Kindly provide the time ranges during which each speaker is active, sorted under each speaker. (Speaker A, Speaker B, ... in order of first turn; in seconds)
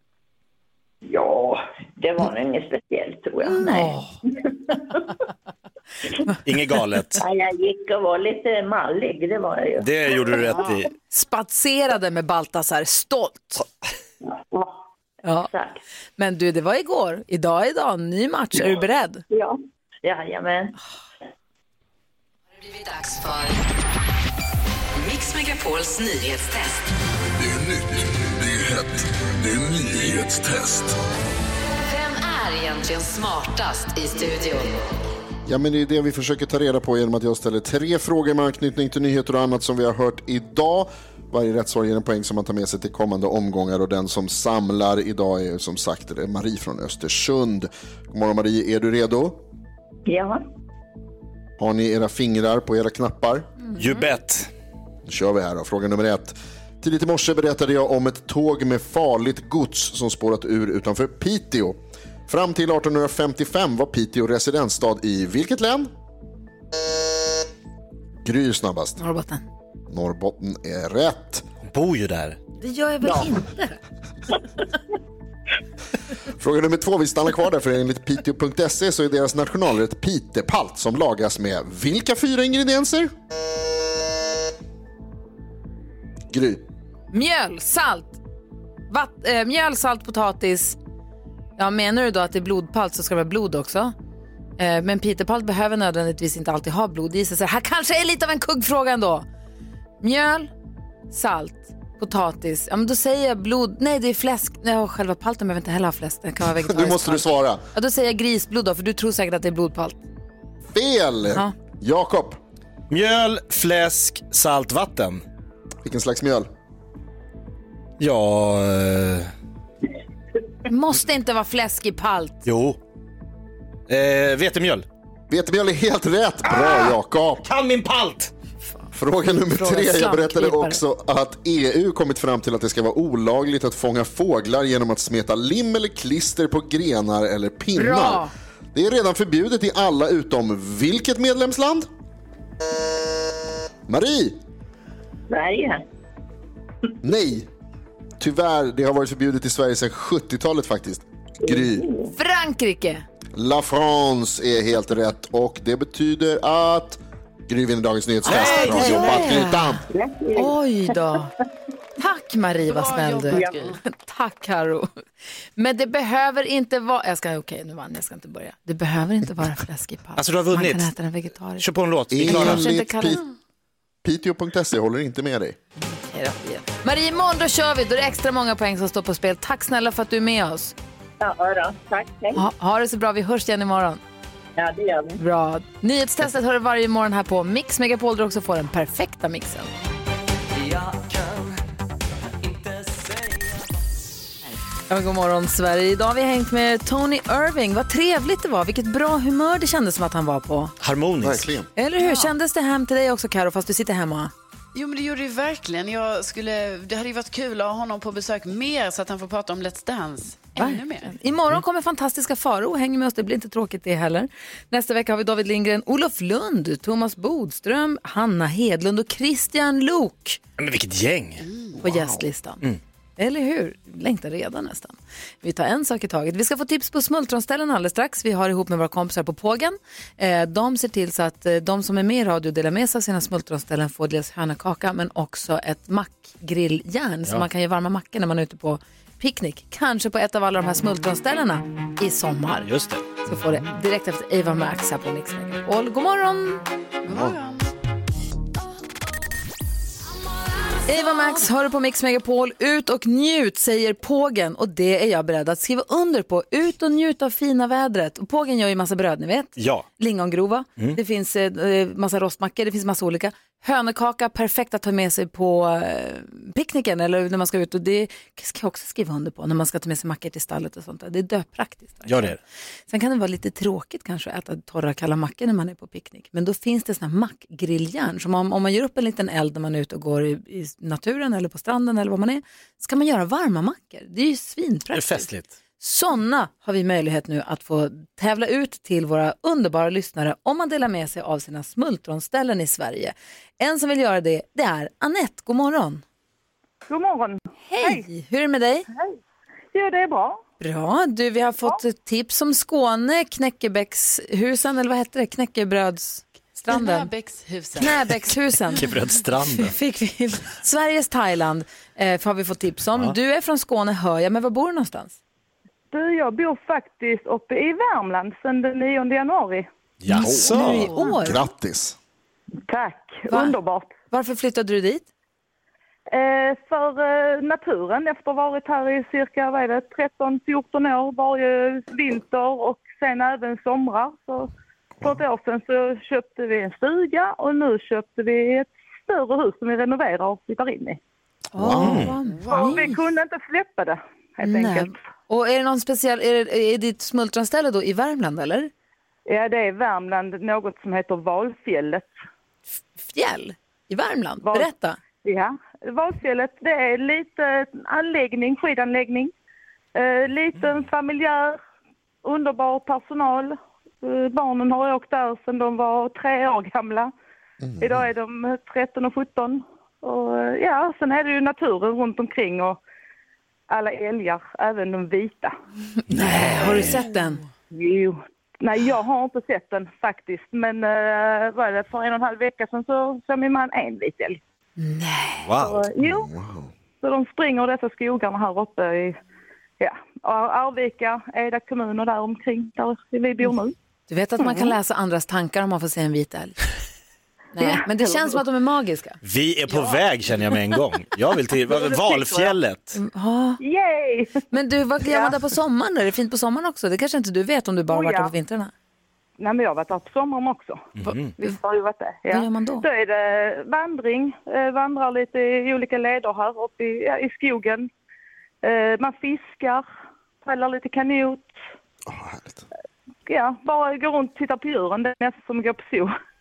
Speaker A: 1.1-4.0, 7.2-10.3, 20.0-20.7, 50.1-50.4, 145.3-145.7, 181.2-182.2, 184.6-185.2
Speaker B: 3.5-4.1, 11.1-13.6, 15.2-15.5, 16.2-19.2, 69.0-69.4, 72.6-73.8, 87.1-88.2, 88.9-90.8, 91.6-93.9, 94.6-99.2, 100.0-100.5, 101.1-110.0, 120.7-122.5, 129.5-130.8, 137.8-138.3, 152.1-153.0, 158.2-159.8, 160.3-161.3, 162.0-165.0, 165.6-171.7, 172.2-173.3, 175.9-180.7, 182.3-184.0, 185.2-189.7, 194.9-200.7, 201.8-204.3, 210.6-220.4, 221.8-222.6, 223.2-246.6, 250.9-272.4, 272.9-296.0, 297.7-298.9, 300.6-307.1, 307.8-308.9, 309.5-315.1, 320.2-321.4, 323.3-323.6, 324.1-325.1, 341.5-343.0, 344.4-348.7, 353.0-355.0, 376.1-377.4, 384.8-385.5, 394.1-396.6, 397.5-399.2, 402.9-403.6, 404.5-408.7, 411.1-411.6, 412.3-412.9
Speaker C: 6.4-7.2, 9.8-10.9, 53.7-54.5, 71.7-72.4, 112.9-115.2, 118.0-119.3, 122.5-122.8, 123.9-124.8, 126.5-128.3, 158.3-159.3, 170.2-170.9, 171.6-172.7, 200.8-201.5, 220.6-221.4, 242.6-243.6, 259.6-259.9, 272.1-272.4, 284.9-285.5, 308.7-309.7, 320.0-320.9, 341.6-342.2, 376.1-377.0, 385.4-385.9, 399.2-403.0, 411.0-411.3
Speaker D: 22.6-23.6, 24.9-26.8, 31.7-34.8, 190.6-191.5, 192.4-192.7
Speaker E: 27.4-31.0
Speaker F: 35.5-49.4, 51.6-53.5, 55.0-61.8, 62.3-65.9, 68.2-69.0, 69.9-71.5, 76.4-83.1, 86.3-86.6, 106.6-107.6, 110.7-112.4, 115.8-116.5, 125.3-127.5, 128.9-141.9, 143.9-144.3, 147.0-147.5, 148.2-151.9, 153.3-159.8, 172.1-173.2, 174.0-175.6, 201.2-201.7, 320.1-320.6, 321.2-321.9, 341.7-342.0, 367.6-368.0, 386.0-386.7, 422.1-422.7
Speaker G: 162.7-163.8, 202.0-202.3, 204.7-211.1, 247.0-247.7, 306.7-308.0, 342.2-342.9
Speaker H: 296.9-298.1, 298.9-299.1, 299.7-300.4, 315.9-319.7, 322.7-323.9, 326.1-334.5, 335.0-341.0, 342.5-344.9, 349.3-352.1, 354.4-354.7, 355.2-359.3, 359.9-361.6, 362.2-367.1, 367.8-372.8, 373.7-375.5, 377.7-384.4, 385.6-386.3, 387.0-389.1, 389.8-393.7, 394.4-394.8, 397.6-398.4, 403.6-404.4, 405.0-405.4, 407.9-408.3, 409.4-417.9, 418.6-419.8, 420.4-421.5, 423.2-426.1